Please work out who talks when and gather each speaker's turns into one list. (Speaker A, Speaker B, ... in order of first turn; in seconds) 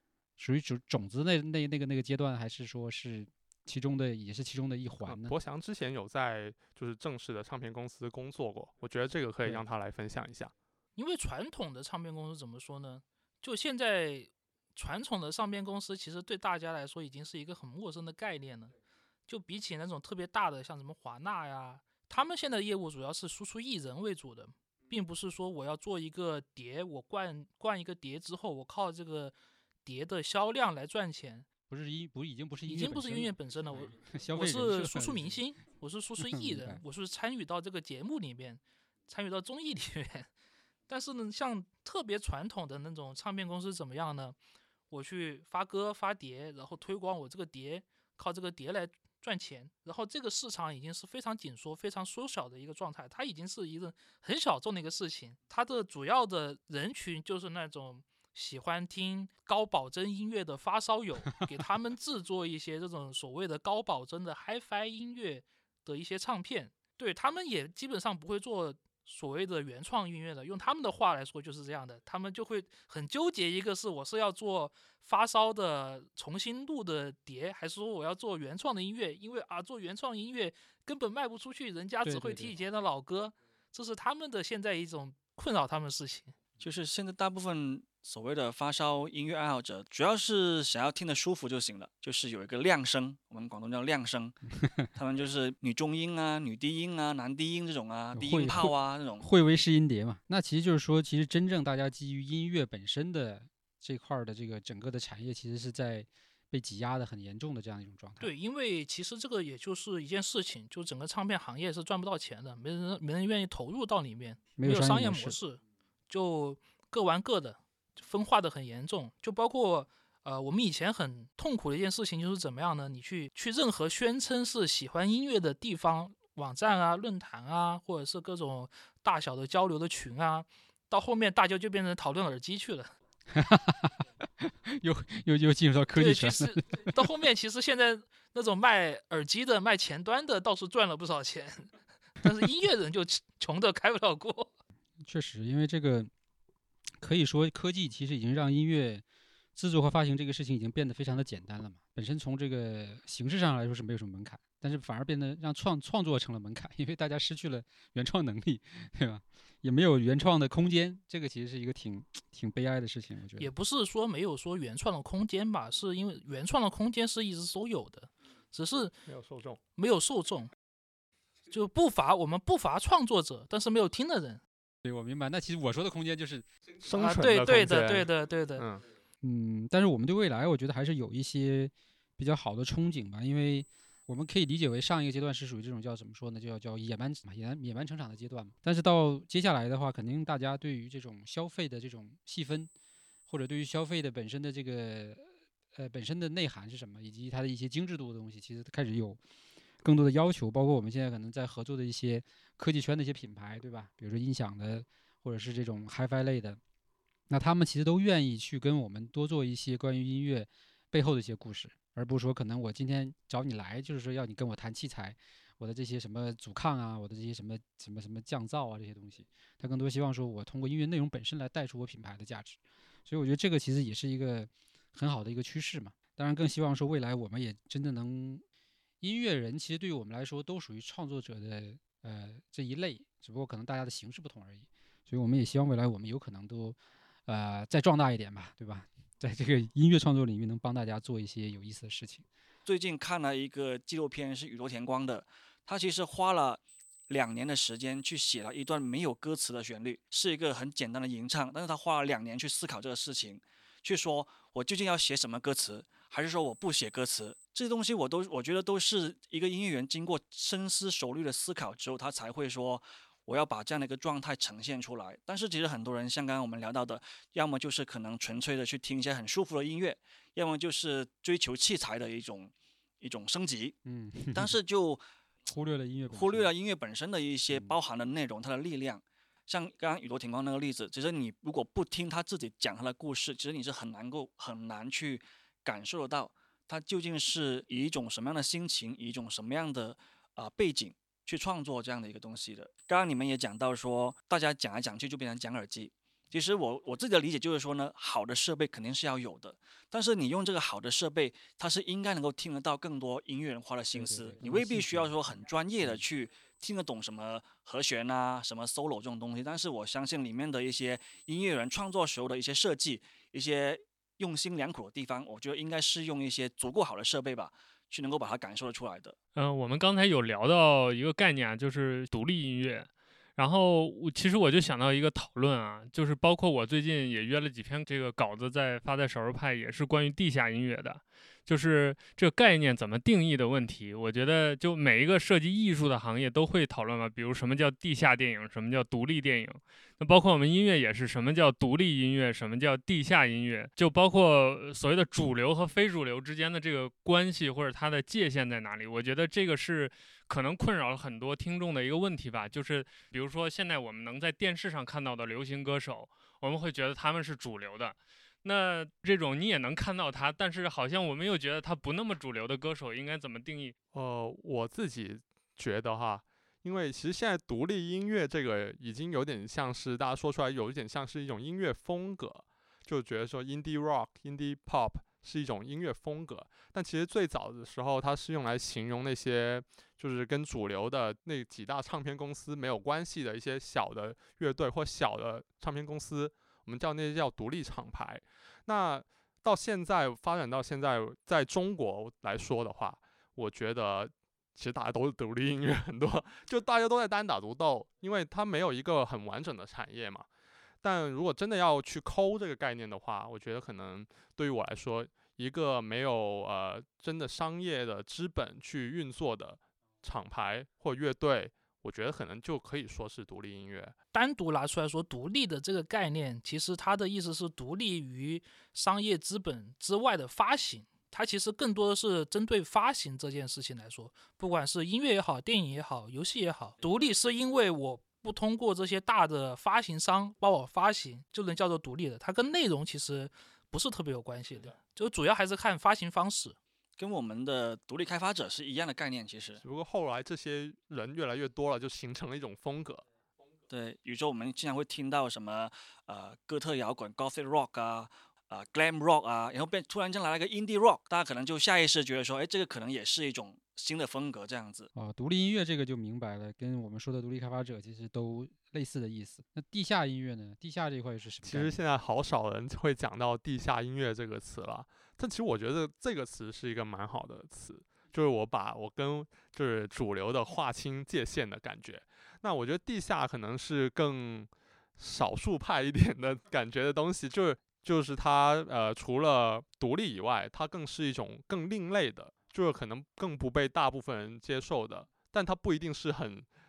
Speaker A: 0.4-5.4, 31.7-35.4, 36.2-36.8, 82.0-82.5, 94.6-94.9, 98.1-108.3, 114.6-115.4, 133.3-136.9, 145.0-146.1, 147.0-149.0, 149.6-163.5, 174.8-176.5, 179.2-192.7, 193.3-199.2, 199.8-206.6, 207.3-228.4, 229.0-242.2, 273.9-274.6, 275.5-276.5, 277.5-277.8, 303.9-305.1, 305.8-306.1, 454.9-461.7
Speaker B: 5.0-10.5, 169.1-169.6, 176.8-178.8, 363.9-400.3, 400.8-413.9, 439.6-443.1, 461.4-486.5
Speaker C: 11.0-18.7, 19.3-29.4, 29.9-31.5, 32.7-40.3, 40.9-44.4, 44.9-86.3, 108.2-132.9, 135.9-144.5, 163.4-168.9, 169.8-170.5, 171.5-174.4, 177.0-178.7, 414.1-436.6
Speaker D: 86.6-94.4, 95.0-99.2, 242.7-273.8, 274.3-275.0, 276.1-319.2, 437.0-439.6, 443.7-454.9
Speaker E: 319.4-363.8